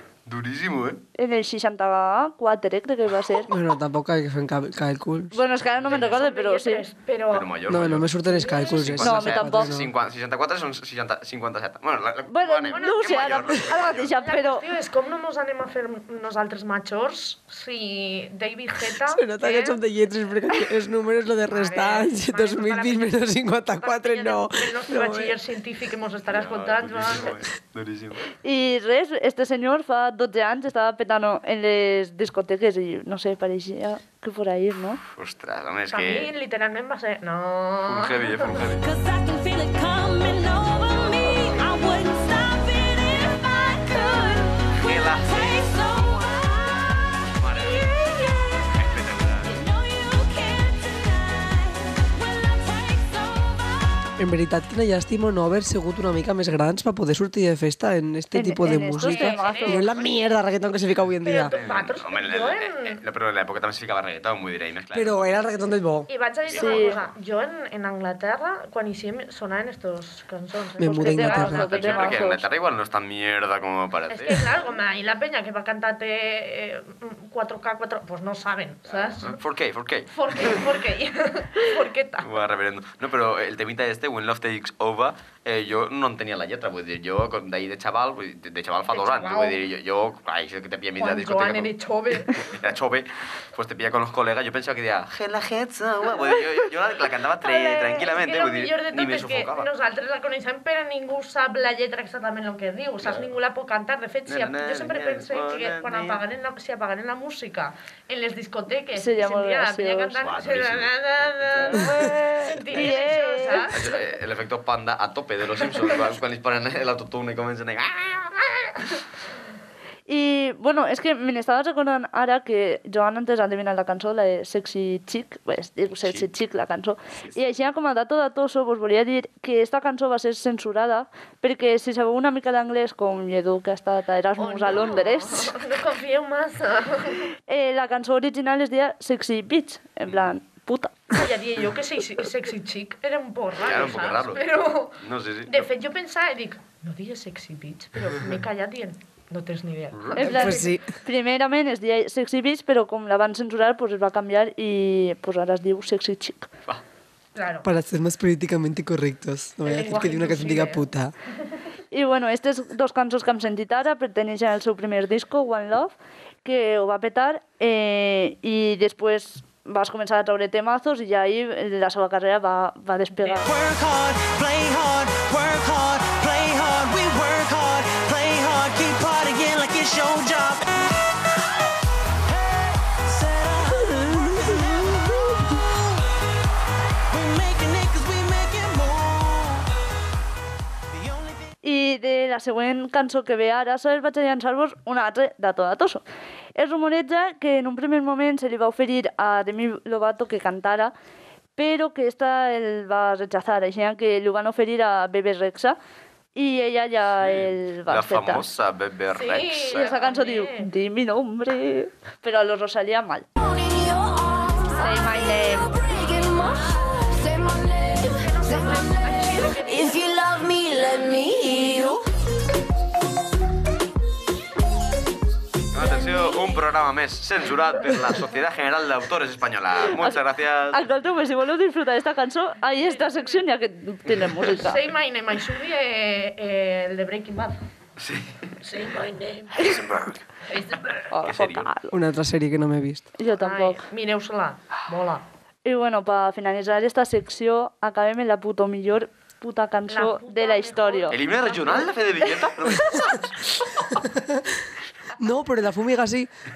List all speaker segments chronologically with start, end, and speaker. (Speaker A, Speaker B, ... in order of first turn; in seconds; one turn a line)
Speaker A: 0.3-1.0
Speaker B: 1.2-3.5
Speaker C: 3.5-5.4
Speaker B: 5.3-6.8
Speaker D: 5.9-7.5
Speaker A: 7.3-14.1
Speaker C: 7.7-9.9
Speaker D: 8.2-8.9
Speaker B: 9.0-9.8
Speaker B: 12.3-14.6
Speaker D: 12.7-13.4
Speaker D: 14.0-19.8
Speaker C: 19.1-25.4
Speaker D: 21.5-23.3
Speaker D: 23.8-27.4
Speaker A: 26.3-28.3
Speaker B: 28.4-35.0
Speaker A: 35.1-36.3
Speaker D: 35.9-38.6
Speaker A: 37.9-38.9
Speaker E: 39.0-46.9
Speaker A: 44.7-45.7
Speaker A: 47.4-48.0
Speaker A: 48.7-49.5
Speaker E: 49.5-53.7
Speaker C: 54.2-61.5
Speaker B: 58.3-59.9
Speaker D: 59.0-59.9
Speaker D: 61.2-63.0
Speaker A: 61.5-65.5
Speaker C: 64.9-66.1
Speaker D: 66.1-72.2
Speaker A: 66.5-67.1
Speaker B: 66.5-67.0
Speaker C: 70.8-71.7
Speaker B: 71.0-72.5
Speaker A: 71.4-74.5
Speaker D: 74.1-79.4
Speaker A: 78.9-80.6
Speaker D: 80.1-82.4
Speaker A: 82.2-91.7
Speaker D: 88.9-89.6
Speaker D: 91.0-92.6
Speaker A: 92.3-99.7
Speaker B: 97.4-98.1
Speaker D: 98.0-113.9
Speaker A: 104.3-106.2
Speaker B: 109.0-110.1
Speaker A: 110.2-112.1
Speaker B: 111.7-113.7
Speaker A: 113.7-119.0
Speaker B: 120.1-135.5
Speaker D: 134.4-137.2
Speaker B: 137.5-141.2
Speaker D: 141.1-150.7
Speaker A: 143.6-145.7
Speaker A: 149.9-150.4
Speaker B: 150.2-156.5
Speaker C: 150.2-150.9
Speaker D: 157.3-157.7
Speaker C: 157.6-161.1
Speaker D: 159.7-160.9
Speaker B: 161.9-173.5
Speaker F: 173.4-180.7
Speaker F: 182.3-185.6
Speaker F: 187.1-189.7
Speaker F: 190.9-191.5
Speaker B: 191.6-196.0
Speaker B: 196.6-200.9
Speaker B: 201.6-205.8
Speaker B: 206.3-208.5
Speaker A: 207.2-209.9
Speaker D: 209.1-210.7
Speaker B: 209.8-213.3
Speaker E: 213.4-214.6
Speaker D: 214.7-215.2
Speaker B: 214.8-215.9
Speaker E: 215.7-219.1
Speaker D: 218.0-220.1
Speaker E: 219.7-222.0
Speaker A: 225.7-230.8
Speaker B: 230.0-234.8
Speaker D: 232.7-233.4
Speaker A: 234.1-234.4
Speaker D: 234.5-237.6
Speaker A: 238.0-238.5
Speaker D: 238.6-239.8
Speaker B: 239.6-240.0
Speaker D: 240.5-241.1
Speaker B: 241.1-242.0
Speaker A: 241.3-241.7
Speaker C: 241.9-243.1
Speaker B: 243.2-243.8
Speaker D: 243.3-245.2
Speaker B: 245.7-251.2
Speaker D: 249.9-252.0
Speaker A: 251.1-253.3
Speaker C: 254.1-254.4
Speaker C: 255.2-256.3